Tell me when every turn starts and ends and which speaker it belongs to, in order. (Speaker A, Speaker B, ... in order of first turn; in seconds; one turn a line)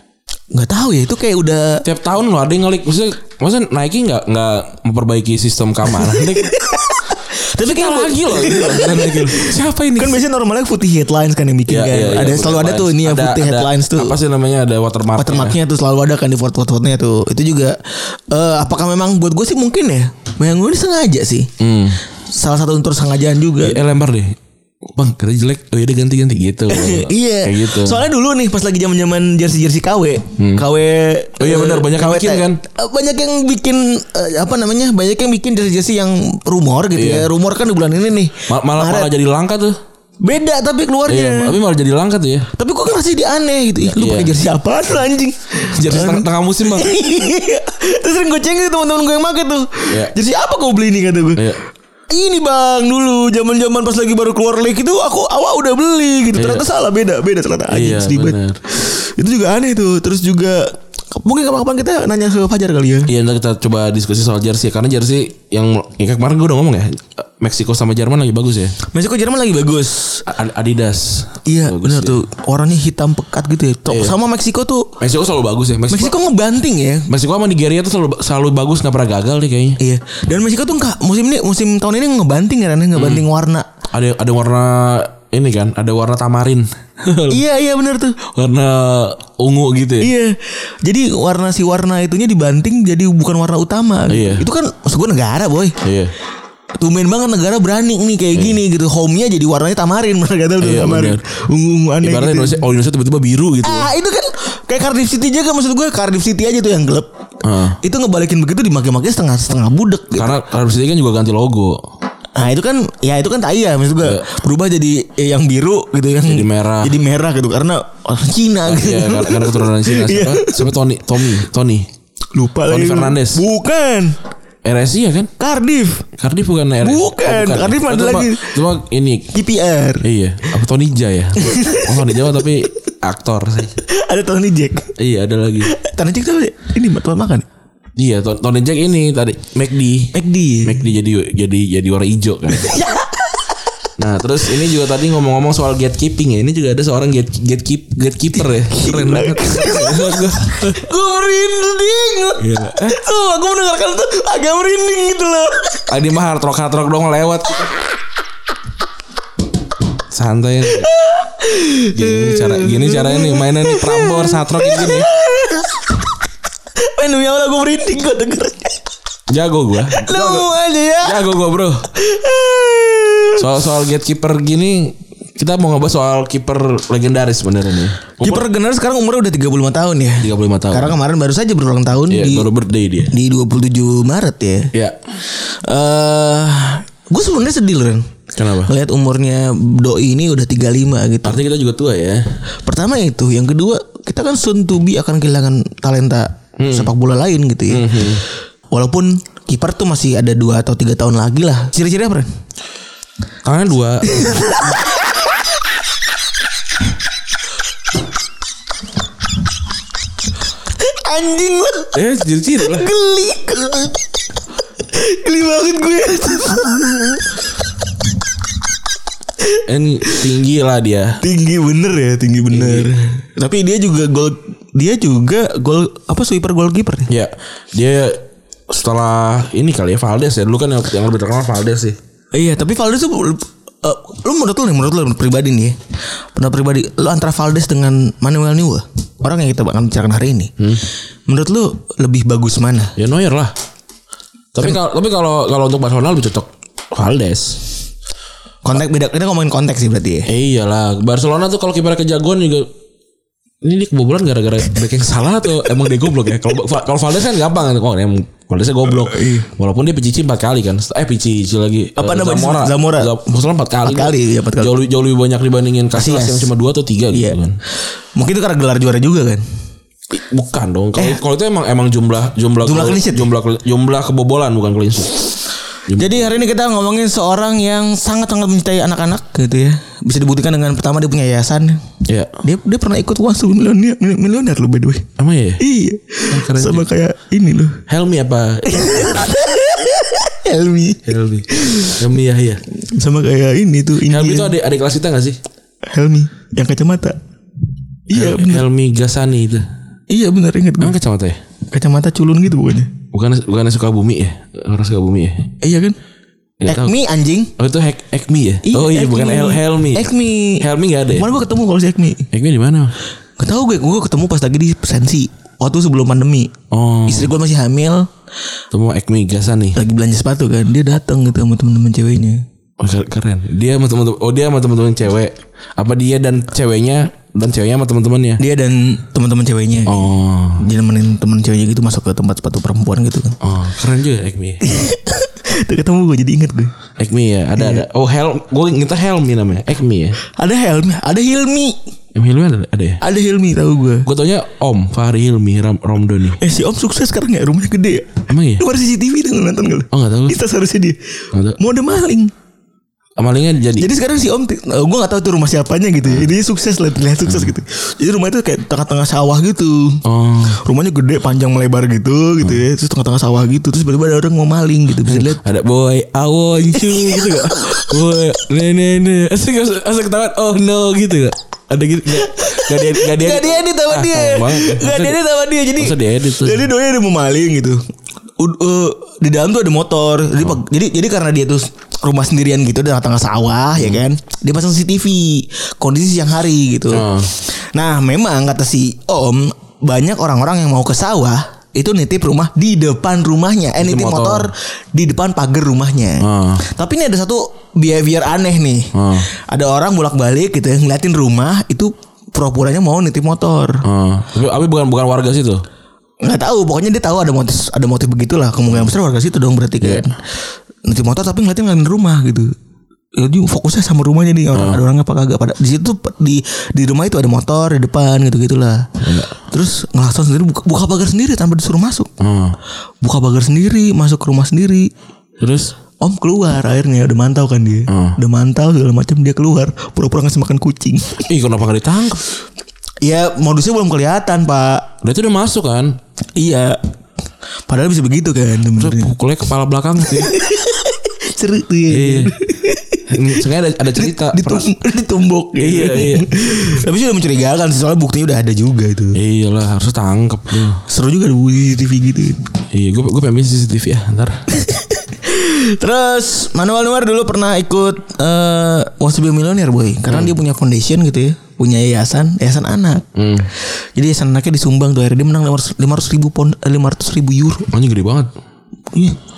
Speaker A: 0.5-1.9
Speaker B: 1.8-6.5
Speaker A: 6.0-14.2
Speaker B: 7.6-10.2
Speaker B: 11.7-15.6
Speaker A: 15.2-21.5
Speaker B: 21.6-22.0
Speaker A: 22.3-23.8
Speaker B: 23.6-24.4
Speaker B: 24.9-28.0
Speaker A: 26.7-39.1
Speaker B: 30.4-30.6
Speaker B: 31.4-32.6
Speaker B: 37.0-37.3
Speaker B: 38.5-39.8
Speaker A: 40.2-41.6
Speaker B: 41.1-42.5
Speaker A: 42.5-51.4
Speaker B: 43.8-44.4
Speaker B: 45.6-47.0
Speaker A: 52.1-63.1
Speaker B: 56.3-56.6
Speaker B: 57.7-58.6
Speaker B: 63.1-68.8
Speaker A: 68.8-70.3
Speaker B: 70.3-72.2
Speaker A: 71.5-74.9
Speaker B: 73.9-74.2
Speaker B: 75.0-76.2
Speaker A: 75.9-77.1
Speaker B: 77.1-79.8
Speaker A: 79.8-83.7
Speaker B: 83.0-83.2
Speaker B: 83.9-87.4
Speaker A: 87.3-88.2
Speaker B: 88.3-90.1
Speaker A: 90.0-95.8
Speaker B: 94.1-94.5
Speaker B: 95.8-96.1
Speaker A: 96.8-102.6
Speaker B: 98.3-98.6
Speaker B: 100.6-101.2
Speaker B: 102.0-103.9
Speaker A: 103.6-107.1
Speaker B: 107.4-107.8
Speaker A: 107.8-110.3
Speaker B: 110.2-111.8
Speaker A: 112.4-120.7
Speaker B: 116.3-116.9
Speaker B: 118.6-121.9
Speaker A: 122.3-124.2
Speaker B: 122.7-123.4
Speaker B: 124.6-125.3
Speaker A: 125.4-126.1
Speaker B: 126.2-129.3
Speaker A: 126.8-128.6
Speaker A: 129.3-130.1
Speaker B: 130.0-133.8
Speaker A: 131.4-132.1
Speaker A: 133.8-134.9
Speaker B: 135.0-135.7
Speaker A: 135.6-137.5
Speaker B: 138.0-142.8
Speaker A: 140.1-140.8
Speaker A: 142.5-143.5
Speaker B: 144.0-150.9
Speaker A: 148.6-155.9
Speaker B: 152.4-153.0
Speaker B: 155.9-157.8
Speaker B: 160.1-160.9
Speaker A: 160.7-165.9
Speaker B: 161.9-165.1
Speaker A: 166.8-168.8
Speaker B: 169.3-170.5
Speaker A: 169.9-171.2
Speaker B: 171.0-171.9
Speaker A: 171.9-173.4
Speaker B: 173.4-178.4
Speaker A: 178.2-182.5
Speaker B: 180.2-181.0
Speaker B: 182.1-183.1
Speaker A: 183.1-184.7
Speaker A: 185.3-191.4
Speaker B: 188.3-188.7
Speaker B: 191.2-192.2
Speaker A: 192.6-198.2
Speaker B: 196.6-196.9
Speaker B: 197.7-198.2
Speaker A: 198.7-202.3
Speaker B: 203.4-204.4
Speaker A: 204.1-204.8
Speaker A: 210.7-212.0
Speaker B: 211.9-212.9
Speaker A: 212.6-214.1
Speaker A: 214.9-217.4
Speaker A: 219.4-220.2
Speaker B: 219.7-221.2
Speaker A: 221.2-227.1
Speaker B: 222.5-222.9
Speaker B: 227.1-232.0
Speaker A: 232.3-235.8
Speaker A: 236.3-240.5
Speaker A: 241.3-242.9
Speaker B: 243.0-243.5
Speaker B: 244.5-247.6
Speaker A: 248.6-250.3
Speaker B: 250.3-252.7
Speaker B: 253.6-267.6
Speaker A: 259.1-259.5
Speaker A: 262.0-263.1
Speaker A: 263.8-264.8
Speaker A: 265.9-266.5
Speaker A: 267.1-267.4
Speaker A: 268.2-269.4
Speaker B: 270.1-276.3
Speaker A: 272.6-273.3
Speaker A: 276.0-281.8
Speaker B: 282.1-282.4
Speaker A: 282.4-287.8
Speaker B: 285.2-285.6
Speaker B: 286.3-286.9
Speaker B: 287.9-289.3
Speaker A: 288.7-292.0
Speaker B: 291.1-292.6
Speaker A: 292.8-294.6
Speaker B: 294.1-295.4
Speaker A: 295.9-297.2
Speaker A: 298.1-298.6
Speaker B: 298.1-299.7
Speaker A: 300.1-301.0
Speaker B: 300.8-301.4
Speaker A: 301.7-302.9
Speaker B: 303.1-305.5
Speaker A: 305.6-306.0
Speaker B: 306.6-307.0
Speaker A: 306.6-307.5
Speaker B: 307.6-311.3
Speaker A: 308.6-312.3
Speaker B: 312.3-312.9
Speaker A: 313.4-316.5
Speaker B: 316.7-317.3
Speaker A: 317.1-318.1
Speaker B: 318.7-319.8
Speaker A: 319.8-322.4
Speaker B: 322.8-328.4
Speaker A: 328.4-333.4
Speaker B: 329.9-330.6
Speaker B: 333.4-334.7
Speaker A: 334.6-336.7
Speaker B: 337.0-340.2
Speaker A: 337.6-337.8
Speaker A: 340.3-341.8
Speaker B: 342.1-343.0
Speaker A: 343.0-344.1
Speaker B: 344.1-346.4
Speaker A: 346.4-352.3
Speaker B: 348.3-348.6
Speaker B: 349.9-350.4
Speaker B: 351.3-351.6
Speaker B: 353.2-353.9
Speaker A: 353.8-365.4
Speaker B: 356.1-356.3
Speaker B: 357.3-357.5
Speaker B: 360.1-360.6
Speaker B: 365.0-375.2
Speaker A: 366.9-367.9
Speaker A: 372.1-377.8
Speaker B: 375.8-376.7
Speaker A: 378.4-403.8
Speaker B: 383.8-384.0
Speaker B: 386.9-387.3
Speaker B: 393.8-394.5
Speaker B: 396.2-396.6
Speaker B: 398.9-399.3
Speaker B: 403.8-405.6
Speaker A: 406.2-412.5
Speaker B: 409.8-410.1
Speaker A: 413.2-422.1
Speaker B: 414.5-414.8
Speaker B: 419.0-419.3
Speaker B: 422.2-422.6
Speaker A: 423.0-424.9
Speaker B: 425.4-425.7
Speaker A: 426.0-431.3
Speaker B: 427.9-428.2
Speaker B: 431.3-432.2
Speaker A: 433.0-434.9
Speaker B: 435.0-436.0
Speaker A: 436.4-436.8
Speaker A: 437.7-439.1
Speaker B: 438.8-440.4
Speaker A: 440.1-443.2
Speaker B: 441.9-442.3
Speaker B: 443.1-444.7
Speaker A: 443.9-449.2
Speaker B: 445.6-446.3
Speaker B: 449.1-450.8
Speaker A: 450.9-452.4
Speaker B: 452.7-454.4
Speaker A: 454.5-463.1
Speaker B: 460.1-460.4
Speaker B: 463.1-463.5
Speaker A: 464.0-467.7
Speaker B: 467.7-468.3
Speaker A: 468.9-469.2